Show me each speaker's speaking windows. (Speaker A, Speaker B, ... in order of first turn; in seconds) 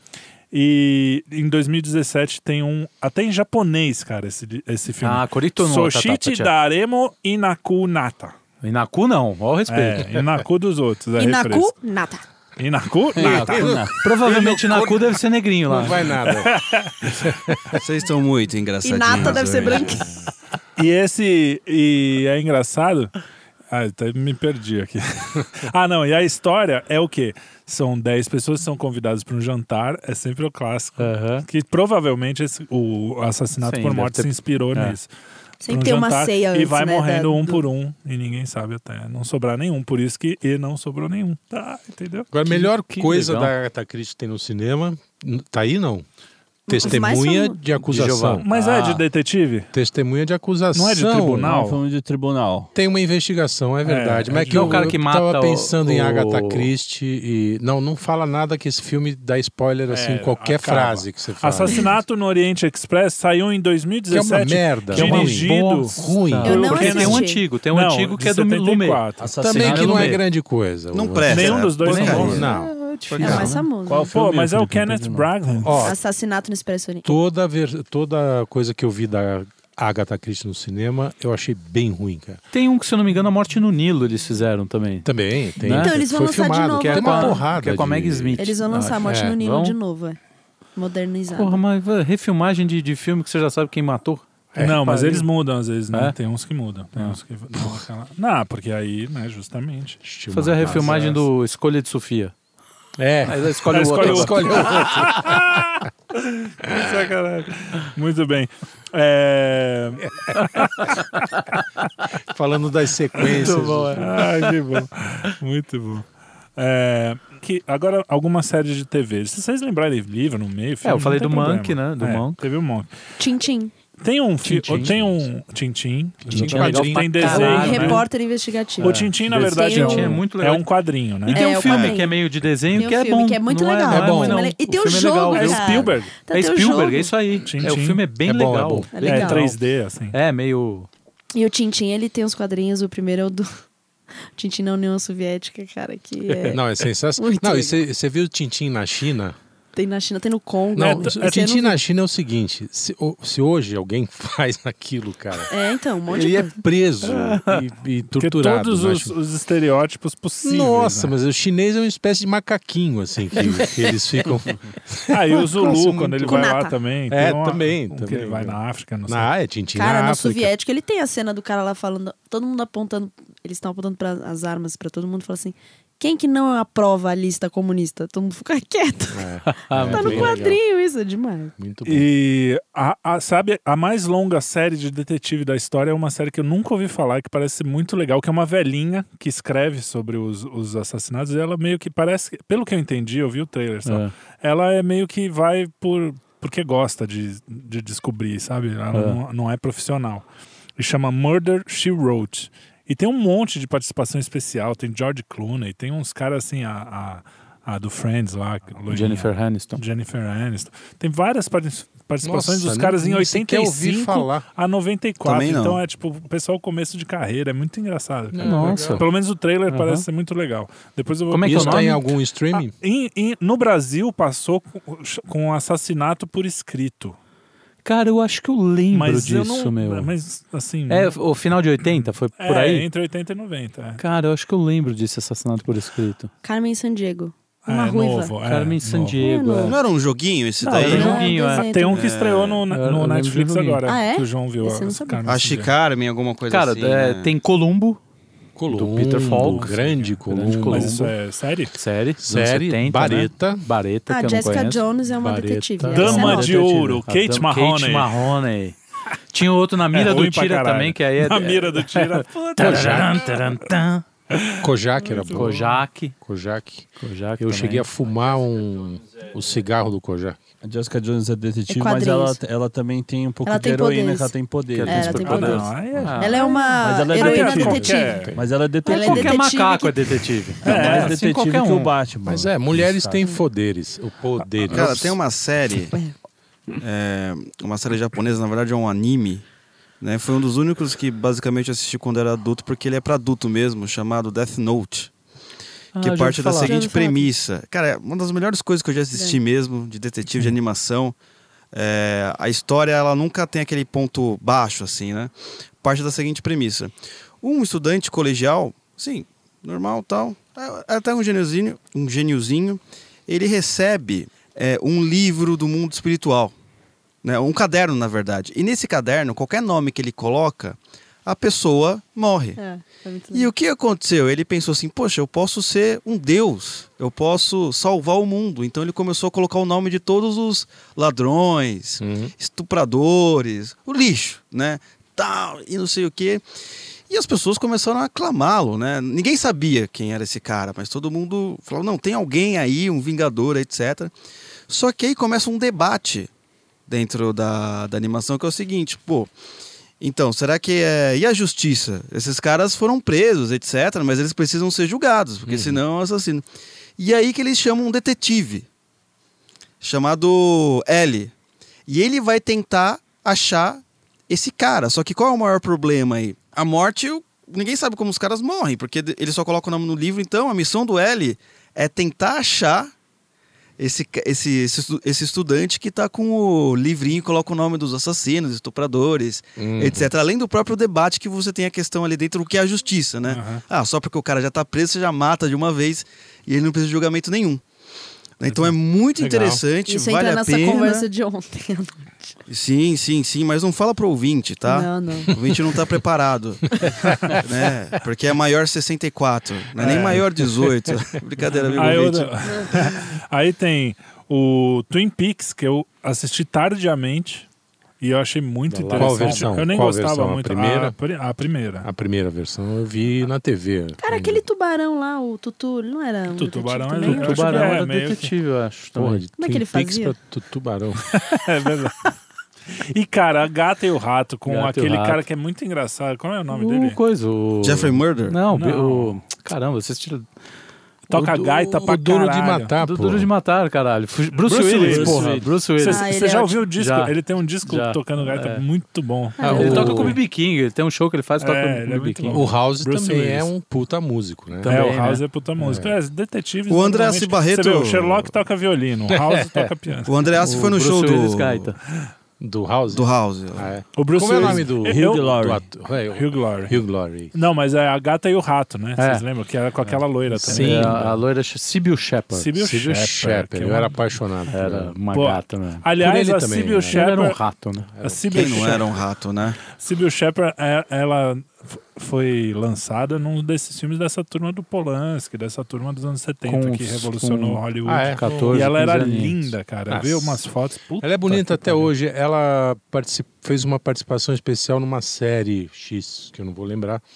Speaker A: 0.5-8.4, 9.7-11.7, 12.6-13.8, 16.2-17.4, 20.8-23.1, 23.7-35.1, 35.7-42.3, 48.4-49.7, 50.7-51.8, 53.8-55.0, 59.9-69.3, 71.3-72.4, 73.9-75.9, 94.6-100.0, 100.6-101.2, 103.7-111.2, 113.9-116.1, 116.6-122.9, 124.0-128.1, 128.8-131.5, 135.3-136.1, 137.5-138.1, 139.0-140.2, 150.8-151.4, 158.1-161.2, 165.1-169.3, 181.8-200.2, 200.8-222.0, 222.6-227.2, 228.9-231.1, 231.8-234.0, 237.7-239.2, 240.8-245.7, 249.4-250.2, 250.7-251.8, 255.9-258.2, 259.9-263.4, 264.3-265.8, 275.2-276.4, 277.1-278.3, 280.6-281.2, 383.3-383.6, 399.8-400.3, 401.8-407.5, 408.0-411.9, 416.3-418.3, 421.1-422.1, 422.8-427.0, 428.5-429.2, 431.1-432.7, 434.4-440.2, 441.4-443.5, 444.7-450.2, 453.9-455.3, 456.1-456.8, 457.3-461.1, 462.3-464.0, 465.1-467.4, 468.0-468.9, 469.7-481.9
Speaker B: 5.0-6.5, 8.6-10.1, 13.2-16.1, 31.0-31.5, 33.6-35.0, 42.5-43.5, 47.8-49.0, 54.5-56.7, 64.9-70.2, 71.8-73.7, 82.5-85.1, 85.6-86.0, 86.8-89.8, 91.3-95.3, 100.3-102.3, 103.3-104.9, 113.2-114.4, 120.8-122.4, 124.4-125.0, 126.3-128.1, 128.8-130.7, 131.3-139.6, 140.1-140.9, 146.3-146.6, 179.5-180.4, 193.9-194.1, 198.9-199.2, 208.9-209.8, 218.4-219.1, 219.7-220.1, 221.3-222.1, 227.8-230.1, 230.9-232.9, 234.0-236.3, 238.4-239.8, 240.6-241.7, 242.7-243.8, 246.5-248.0, 248.7-251.1, 251.8-254.8, 255.8-258.8, 259.3-264.1, 265.3-266.1, 267.0-267.9, 274.8-276.7, 278.9-281.9, 295.9-296.8, 408.9-409.4, 417.0-419.2, 424.5-425.2, 426.5-430.3, 432.8-436.1, 436.8-437.1, 437.6-438.6, 439.4-442.6, 444.6-445.2, 450.4-451.8, 459.0-459.2, 459.9-462.5, 464.5-465.9, 466.9-467.9, 476.5-477.6, 478.1-479.5
Speaker C: 11.2-12.2, 18.8-20.1, 35.6-37.6, 46.7-47.6, 66.4-67.4, 73.2-74.1, 75.8-77.1, 85.7-87.4, 88.4-90.2, 90.8-91.6, 123.2-123.7, 127.1-130.2, 131.3-132.2, 132.7-137.2, 138.9-139.4, 141.3-143.5, 144.4-146.6, 147.2-147.8, 149.7-151.8, 155.5-156.6, 166.2-166.8, 169.8-181.5, 236.4-238.3, 239.2-239.8, 240.8-242.1, 243.8-245.3, 254.1-256.7, 271.7-272.4, 273.4-274.3, 274.9-278.3, 278.9-280.3, 296.6-297.3, 322.6-323.5, 389.8-392.1, 394.6-395.3, 414.0-417.8, 419.4-420.2, 435.8-436.6, 439.4-440.1
Speaker D: 13.2-17.8, 42.3-46.1, 46.7-48.5, 49.7-51.6, 52.8-61.9, 64.1-66.8, 69.4-72.7, 75.6-76.0, 77.0-82.4, 85.0-89.4, 94.6-94.8, 97.5-97.8, 100.0-101.2, 103.0-105.6, 112.3-114.3, 126.2-127.8, 133.9-134.6, 138.2-139.1, 146.5-149.4, 150.7-159.2, 160.4-166.5, 167.1-170.5, 179.1-180.6, 181.6-182.1, 212.2-214.5, 218.3-219.1, 221.4-222.8, 248.6-251.0, 252.2-253.7, 255.1-256.7, 262.6-263.2, 264.6-270.4, 277.7-278.5, 282.2-285.2, 332.0-332.3, 355.5-355.8, 379.6-380.1, 389.2-389.6, 396.8-397.4, 401.6-402.0, 408.7-410.9, 411.8-414.4, 418.9-421.1, 431.1-433.3, 439.4-440.2, 442.3-444.8, 445.6-445.9, 449.1-449.7, 452.4-457.3, 460.3-461.2, 462.3-465.0, 465.9-467.0, 467.8-468.8, 477.9-478.8, 479.9-480.4, 481.0-487.0
Speaker E: 17.8-20.1, 70.9-72.5, 73.1-73.5, 131.6-132.0, 215.2-215.8, 239.7-242.7, 245.3-247.3, 284.7-286.0, 286.8-289.4, 290.0-295.1, 296.0-301.2, 301.7-316.5, 317.2-322.6, 323.3-336.4, 337.1-344.1, 344.7-346.3, 346.9-349.3, 350.0-356.4, 357.0-358.7, 359.8-361.3, 361.9-372.9, 373.8-387.6, 388.4-391.1, 392.5-402.3, 427.6-428.4, 446.7-448.3, 450.1-451.7, 452.9-453.7, 468.3-469.6
Speaker F: 51.5-52.7, 69.2-70.2, 73.9-75.3, 270.6-275.6, 276.8-279.4, 280.6-283.2, 434.8-435.5, 454.6-455.7